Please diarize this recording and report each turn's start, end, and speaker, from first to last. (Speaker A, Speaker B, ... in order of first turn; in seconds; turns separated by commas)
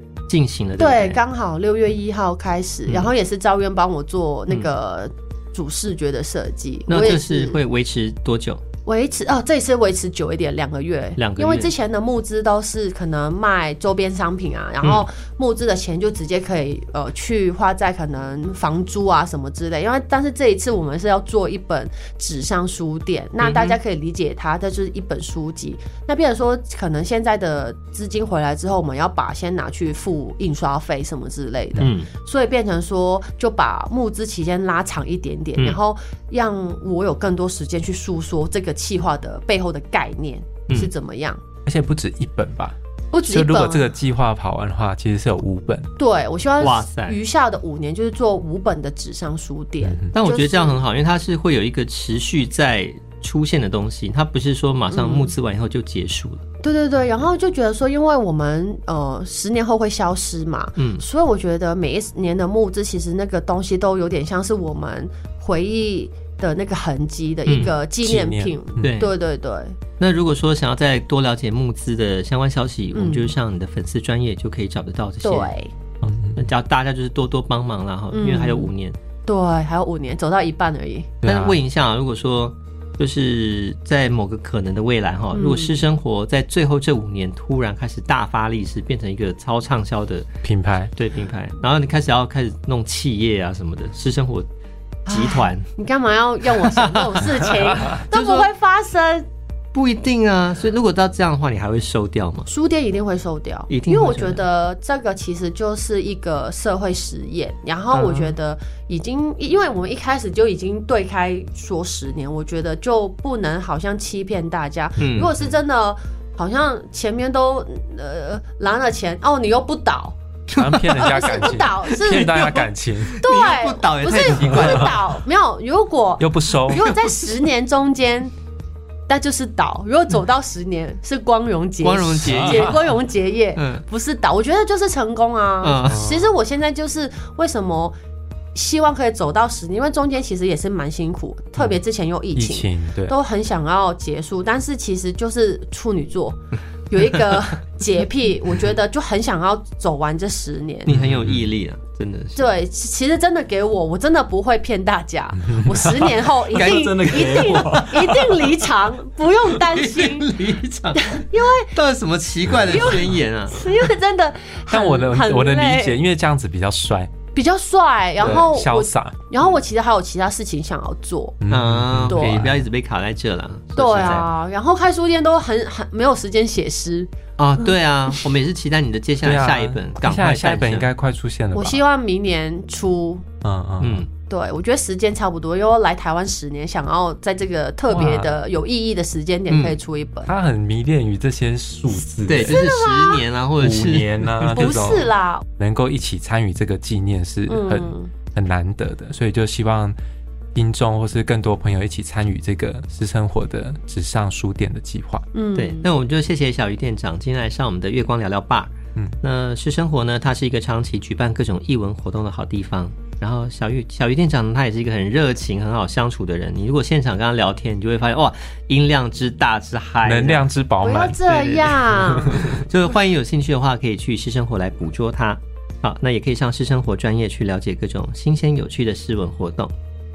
Speaker A: 0.3-1.2, Speaker B: 0.8-7.6, Speaker A: 6.9-8.6, Speaker B: 8.9-41.4, Speaker A: 11.2-11.7, Speaker A: 23.4-23.8, Speaker A: 31.8-32.1, Speaker C: 41.7-45.9, Speaker B: 43.1-43.9, Speaker B: 46.0-50.8, Speaker A: 46.6-47.2, Speaker C: 49.8-50.1, Speaker A: 50.1-56.4, Speaker B: 54.9-55.3, Speaker B: 56.6-69.8, Speaker A: 60.8-61.0, Speaker A: 67.5-67.8, Speaker C: 68.0-69.0, Speaker A: 68.8-69.1, Speaker A: 70.0-79.0, Speaker B: 72.9-73.3, Speaker B: 75.2-75.7, Speaker C: 76.0-76.4, Speaker B: 78.1-78.7, Speaker B: 79.3-81.1, Speaker C: 81.2-81.6, Speaker A: 81.2-90.3, Speaker B: 85.3-85.8, Speaker C: 90.4-90.9, Speaker A: 91.0-94.5, Speaker A: 95.1-95.7, Speaker B: 95.1-99.3, Speaker A: 96.4-97.3, Speaker A: 97.9-98.5, Speaker A: 99.7-102.5, Speaker B: 102.5-120.2, Speaker A: 103.7-104.4, Speaker A: 107.9-108.4, Speaker A: 115.0-115.4, Speaker A: 120.5-125.0, Speaker C: 120.6-123.2, Speaker B: 120.9-122.7, Speaker B: 123.2-128.3, Speaker C: 124.3-124.9, Speaker C: 126.2-126.9, Speaker B: 129.1-137.9, Speaker A: 131.8-132.9, Speaker C: 132.2-132.7, Speaker A: 133.6-133.8, Speaker A: 135.6-136.2, Speaker B: 138.6-146.4, Speaker C: 142.3-143.2, Speaker B: 146.9-150.9, Speaker A: 150.9-152.5, Speaker C: 150.9-151.5, Speaker B: 152.3-160.3, Speaker C: 155.4-158.4, Speaker A: 156.5-158.1, Speaker A: 159.5-163.7, Speaker B: 160.9-161.7, Speaker B: 162.7-166.0, Speaker C: 164.7-167.1, Speaker B: 167.3-171.4, Speaker C: 168.2-169.2, Speaker C: 171.4-172.6, Speaker A: 171.5-174.3, Speaker B: 172.1-172.5, Speaker B: 173.8-177.1, Speaker A: 177.4-180.9, Speaker C: 179.2-181.8, Speaker B: 181.6-183.2, Speaker C: 183.4-184.1, Speaker A: 183.8-184.1, Speaker B: 184.3-190.3, Speaker C: 187.9-188.4, Speaker A: 189.5-189.8, Speaker C: 190.3-192.6, Speaker A: 192.3-194.7, Speaker B: 192.4-193.3, Speaker C: 193.6-199.9, Speaker B: 194.5-195.4, Speaker B: 197.5-198.1, Speaker C: 200.6-205.3, Speaker B: 205.3-205.9, Speaker A: 205.6-220.5, Speaker C: 220.1-221.2, Speaker B: 220.8-222.6, Speaker A: 221.3-229.7, Speaker C: 222.2-222.6